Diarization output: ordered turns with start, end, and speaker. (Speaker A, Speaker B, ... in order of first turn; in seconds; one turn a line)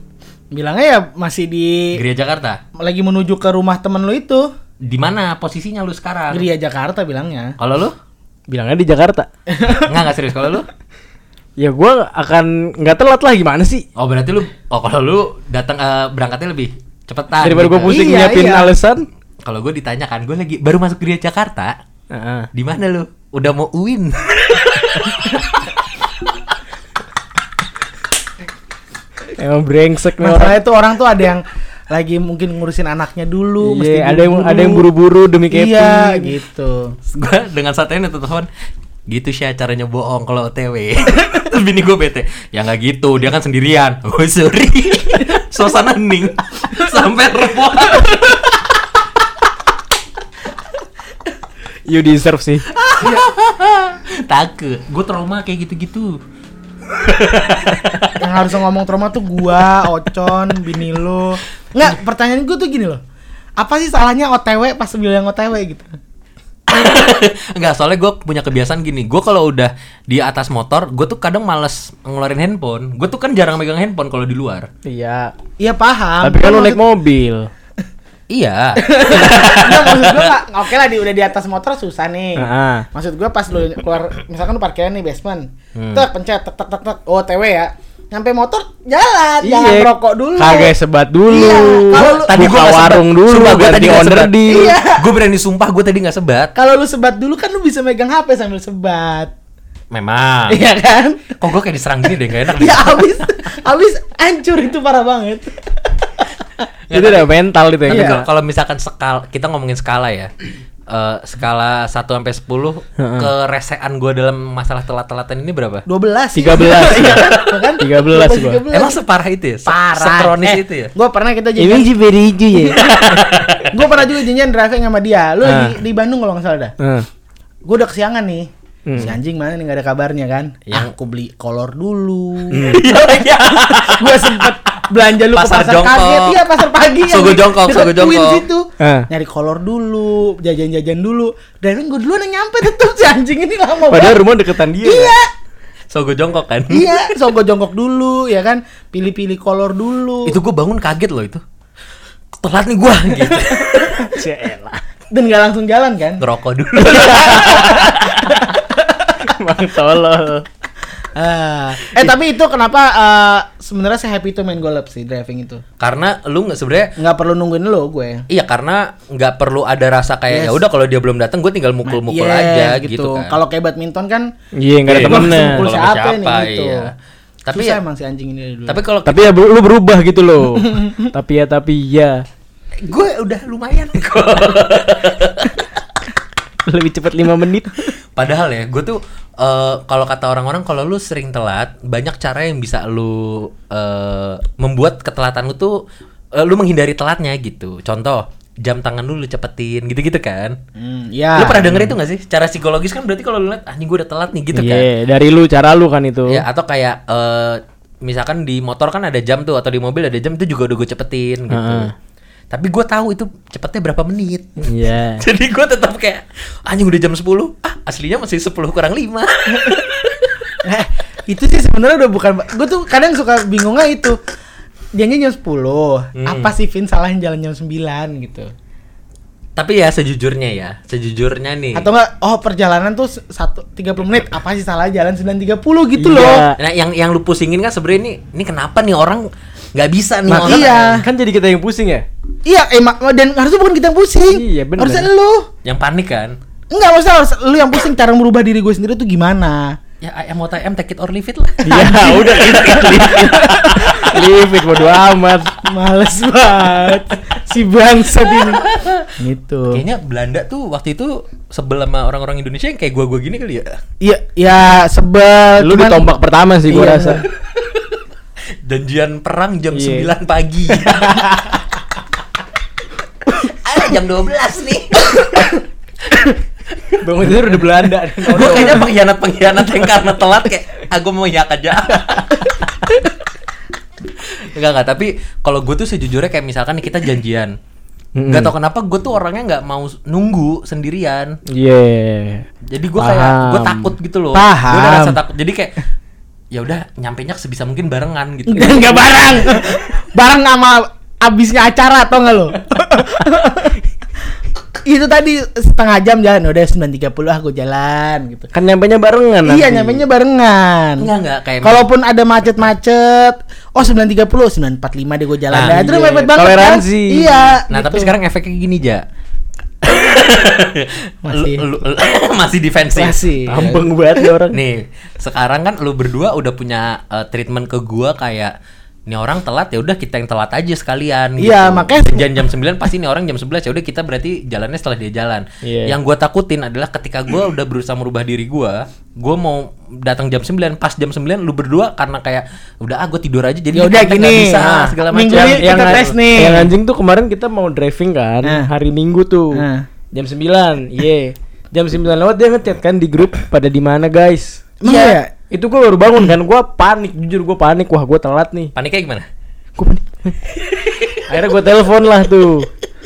Speaker A: 0.5-2.0
Speaker B: 1.9-2.6
Speaker A: 2.8-4.5
Speaker B: 4.8-6.5
Speaker A: 6.3-7.5
Speaker B: 7.6-8.0
Speaker C: 8.5-9.3
Speaker A: 9.5-9.9
Speaker B: 9.7-10.7
Speaker C: 11.6-13.8
Speaker B: 14.0-18.0
Speaker C: 17.4-19.1
Speaker A: 17.9-18.7
Speaker B: 19.4-21.7
Speaker C: 22.1-22.5
Speaker B: 22.5-25.4
Speaker C: 29.4-30.6
Speaker A: 30.2-34.9
Speaker C: 33.6-36.3
Speaker A: 35.5-37.0
Speaker B: 37.1-38.5
Speaker B: 39.1-48.6
Speaker C: 51.9-52.6
Speaker B: 52.7-56.2
Speaker B: 56.9-58.2
Speaker A: 58.2-63.0
Speaker A: 63.6-65.9
Speaker B: 66.7-74.7
Speaker C: 74.8-75.3
Speaker A: 75.6-76.8
Speaker C: 76.2-77.5
Speaker B: 78.3-80.3
Speaker A: 78.8-90.7
Speaker C: 82.3-82.8
Speaker B: 85.7-86.0
Speaker C: 89.4-94.7
Speaker A: 91.3-92.4
Speaker B: 91.9-96.5
Speaker A: 94.5-95.0
Speaker A: 96.5-99.3
Speaker B: 99.9-100.6
Speaker A: 100.5-101.3
Speaker B: 101.4-103.3
Speaker A: 102.5-105.6
Speaker B: 106.9-107.3
Speaker C: 106.9-108.3
Speaker B: 107.8-110.3
Speaker A: 107.9-108.2
Speaker B: 110.9-115.8
Speaker C: 113.0-113.3
Speaker A: 115.8-119.0
Speaker C: 116.3-118.6
Speaker B: 116.9-117.5
Speaker B: 118.7-120.9
Speaker A: 119.7-121.9
Speaker C: 121.6-122.8
Speaker B: 122.8-123.8
Speaker A: 123.7-126.7
Speaker C: 125.4-125.8
Speaker C: 126.8-127.1
Speaker A: 127.7-144.2
Speaker C: 128.9-129.2
Speaker C: 132.5-132.8
Speaker B: 132.6-134.6
Speaker B: 135.3-136.4
Speaker B: 137.1-138.4
Speaker C: 138.8-139.1
Speaker C: 143.9-145.1
Speaker A: 144.8-145.3
Speaker B: 145.9-147.1
Speaker A: 146.7-150.3
Speaker B: 150.2-151.4
Speaker B: 152.4-154.1
Speaker C: 154.0-154.8
Speaker A: 155.1-156.2
Speaker B: 156.2-158.4
Speaker A: 156.8-159.3
Speaker C: 159.2-160.4
Speaker A: 161.1-165.6
Speaker B: 165.8-166.9
Speaker A: 167.0-168.2
Speaker B: 168.3-173.3
Speaker A: 170.3-170.6
Speaker A: 171.8-174.3
Speaker C: 174.6-175.6
Speaker B: 174.9-176.9
Speaker A: 174.9-176.9
Speaker B: 177.4-177.8
Speaker A: 177.5-178.8
Speaker B: 178.7-179.3
Speaker C: 179.1-182.2
Speaker A: 180.6-181.1
Speaker B: 182.8-185.6
Speaker C: 186.7-187.9
Speaker B: 188.2-195.8
Speaker B: 196.3-200.6
Speaker A: 200.8-201.8
Speaker B: 201.3-204.9
Speaker C: 204.5-206.4
Speaker B: 206.3-211.9
Speaker C: 211.5-211.9
Speaker B: 212.5-220.3
Speaker C: 214.6-215.2
Speaker A: 220.6-224.2
Speaker A: 224.9-228.5
Speaker B: 226.2-226.5
Speaker B: 229.6-231.9
Speaker A: 231.7-236.5
Speaker C: 236.0-236.6
Speaker B: 236.6-241.0
Speaker A: 240.3-241.0
Speaker C: 240.3-242.0
Speaker A: 242.4-245.5
Speaker C: 244.3-245.1
Speaker B: 245.6-246.3
Speaker A: 246.7-249.8
Speaker B: 250.0-254.2
Speaker C: 251.6-255.5
Speaker A: 251.7-254.0
Speaker A: 255.6-259.8
Speaker B: 258.6-259.1
Speaker B: 259.7-263.8
Speaker A: 264.0-266.0
Speaker C: 265.6-267.2
Speaker A: 266.7-267.2
Speaker B: 268.6-271.5
Speaker C: 269.7-270.1
Speaker B: 273.3-277.0
Speaker C: 277.0-278.9
Speaker B: 278.2-282.9
Speaker A: 278.3-278.8
Speaker B: 284.2-287.5
Speaker C: 288.1-288.5
Speaker B: 288.3-291.4
Speaker C: 291.5-292.4
Speaker B: 292.7-295.7
Speaker C: 293.0-293.9
Speaker A: 294.3-295.2
Speaker B: 296.5-299.3
Speaker A: 298.5-303.8
Speaker A: 304.8-308.5
Speaker C: 308.5-310.0
Speaker A: 309.4-311.1
Speaker B: 311.0-311.8
Speaker A: 311.6-318.1
Speaker B: 315.5-315.8
Speaker C: 315.6-317.4
Speaker B: 317.7-319.0
Speaker B: 319.8-323.2
Speaker A: 321.2-321.6
Speaker A: 322.9-324.3
Speaker C: 323.5-324.6
Speaker B: 324.5-328.5
Speaker B: 329.1-346.1
Speaker A: 331.4-332.4
Speaker C: 335.6-336.0
Speaker A: 343.7-346.7
Speaker C: 345.3-354.8
Speaker A: 348.4-348.7
Speaker A: 349.5-349.9
Speaker A: 354.8-355.3
Speaker C: 355.5-358.7
Speaker B: 358.8-359.2
Speaker C: 359.8-360.4
Speaker B: 360.8-361.2
Speaker C: 361.3-362.7